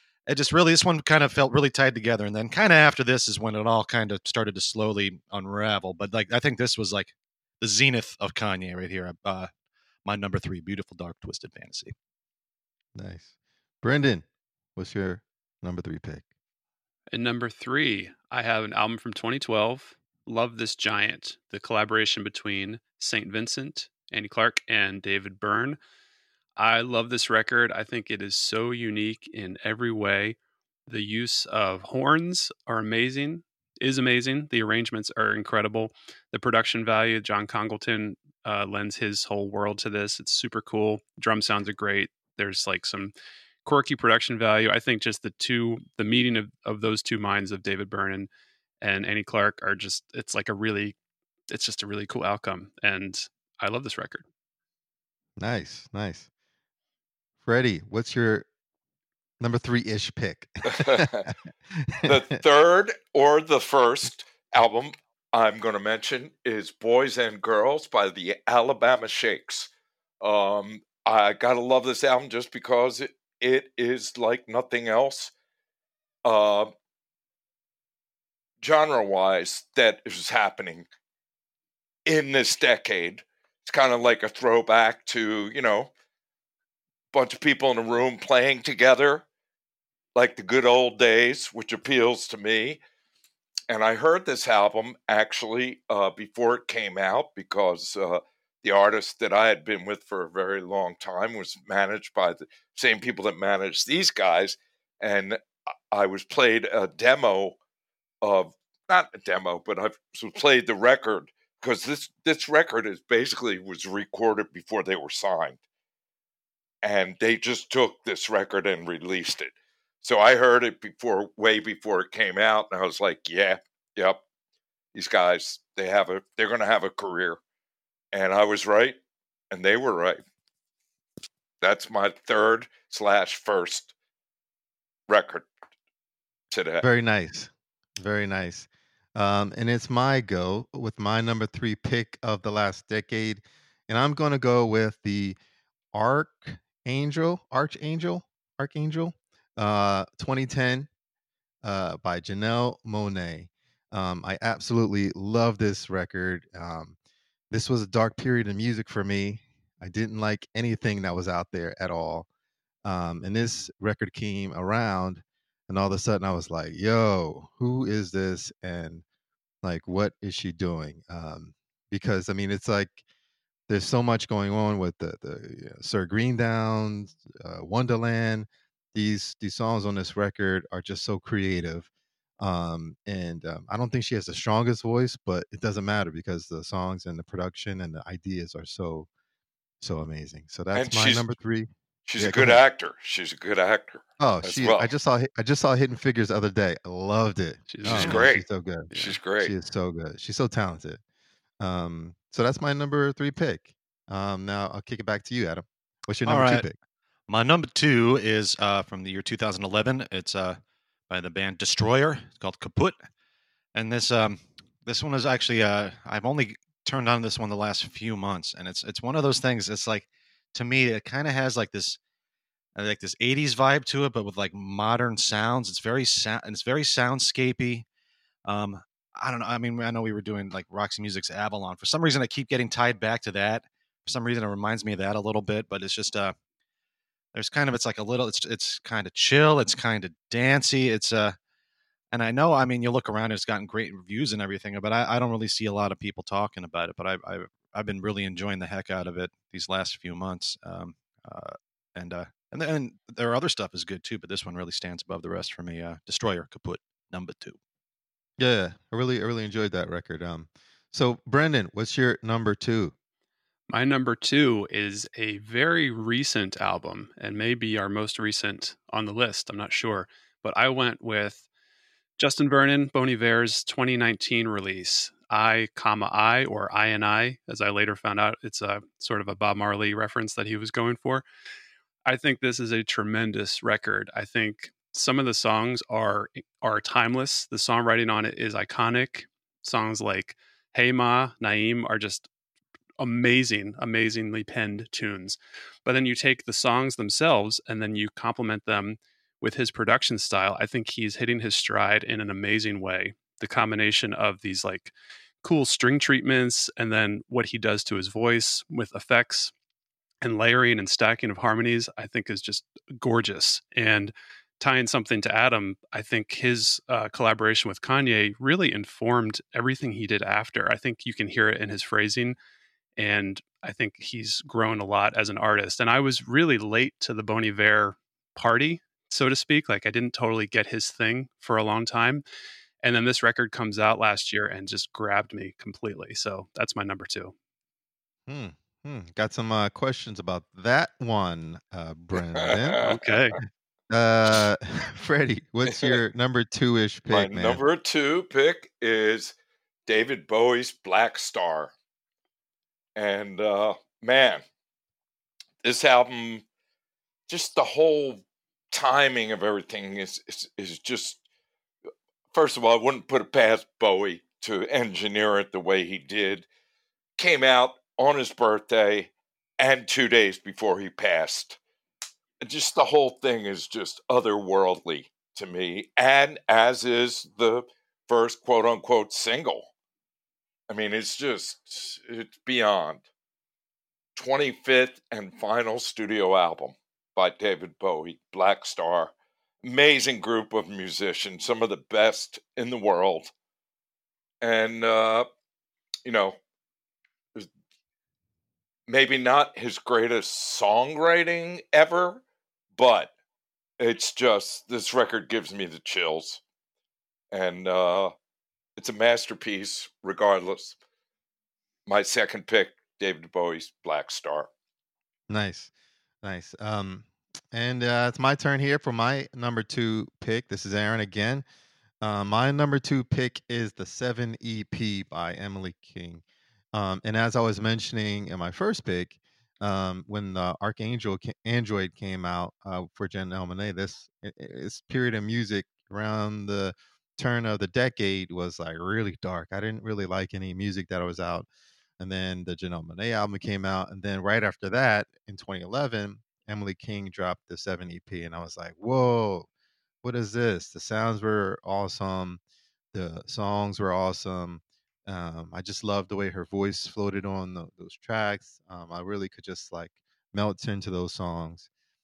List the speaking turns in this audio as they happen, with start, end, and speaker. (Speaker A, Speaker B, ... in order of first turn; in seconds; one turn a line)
Speaker A: 0.3-9.5
Speaker A: 10.1-11.9
Speaker B: 13.0-13.3
Speaker B: 13.8-14.2
Speaker B: 14.8-16.2
Speaker C: 17.1-25.8
Speaker C: 26.6-30.4
Speaker C: 30.9-43.1
Speaker C: 43.6-48.3
Speaker C: 48.8-51.0
Speaker C: 51.5-54.2
Speaker B: 55.4-56.3
Speaker B: 57.4-58.5
Speaker B: 59.4-62.4
Speaker D: 60.7-61.2
Speaker D: 62.1-75.3
Speaker D: 76.2-76.7
Speaker D: 78.6-80.9
Speaker D: 82.1-85.9
Speaker D: 87.1-89.2
Speaker D: 90.2-92.8
Speaker D: 93.7-107.6
Speaker D: 108.2-115.6
Speaker D: 116.8-124.2
Speaker D: 124.9-127.4
Speaker D: 128.1-129.0
Speaker D: 129.5-130.2
Speaker D: 131.6-133.9
Speaker D: 135.1-135.5
Speaker D: 136.5-136.8
Speaker B: 136.8-145.4
Speaker B: 145.9-150.9
Speaker B: 151.6-156.9
Speaker B: 157.5-162.3
Speaker B: 162.8-169.0
Speaker B: 169.6-173.0
Speaker B: 173.7-181.9
Speaker B: 182.4-189.1
Speaker B: 189.8-192.6
Speaker D: 190.7-191.3
Speaker D: 192.1-194.9
Speaker B: 194.2-201.0
Speaker C: 197.7-198.2
Speaker D: 197.9-199.5
Speaker A: 197.9-198.2
Speaker C: 198.9-199.2
Speaker B: 201.6-206.8
Speaker A: 206.3-206.7
Speaker A: 207.3-210.6
Speaker A: 211.1-213.0
Speaker A: 213.7-222.0
Speaker A: 222.8-227.8
Speaker A: 228.5-236.3
Speaker A: 237.3-241.4
Speaker A: 242.1-257.6
Speaker B: 258.4-262.9
Speaker C: 263.7-271.4
Speaker C: 272.2-281.2
Speaker C: 282.1-292.3
Speaker C: 293.0-304.9
Speaker C: 305.4-309.5
Speaker C: 310.2-322.4
Speaker C: 323.0-332.2
Speaker C: 332.8-337.3
Speaker B: 338.3-342.8
Speaker D: 342.4-343.0
Speaker C: 342.8-343.4
Speaker A: 342.8-343.4
Speaker B: 343.9-347.6
Speaker D: 347.1-349.4
Speaker D: 349.9-351.7
Speaker D: 353.0-354.4
Speaker D: 355.6-356.4
Speaker D: 357.3-361.2
Speaker D: 362.3-366.5
Speaker D: 367.2-371.6
Speaker D: 372.4-379.7
Speaker D: 380.7-383.1
Speaker D: 384.2-393.3
Speaker D: 394.4-395.3
Speaker D: 396.1-396.4
Speaker D: 398.9-402.2
Speaker D: 402.8-403.1
Speaker D: 403.8-406.4
Speaker D: 407.3-408.1
Speaker D: 408.8-410.8
Speaker D: 411.9-414.5
Speaker B: 415.3-415.7
Speaker B: 416.2-421.4
Speaker B: 422.0-441.5
Speaker B: 442.0-449.5
Speaker B: 450.0-452.4
Speaker B: 452.9-461.7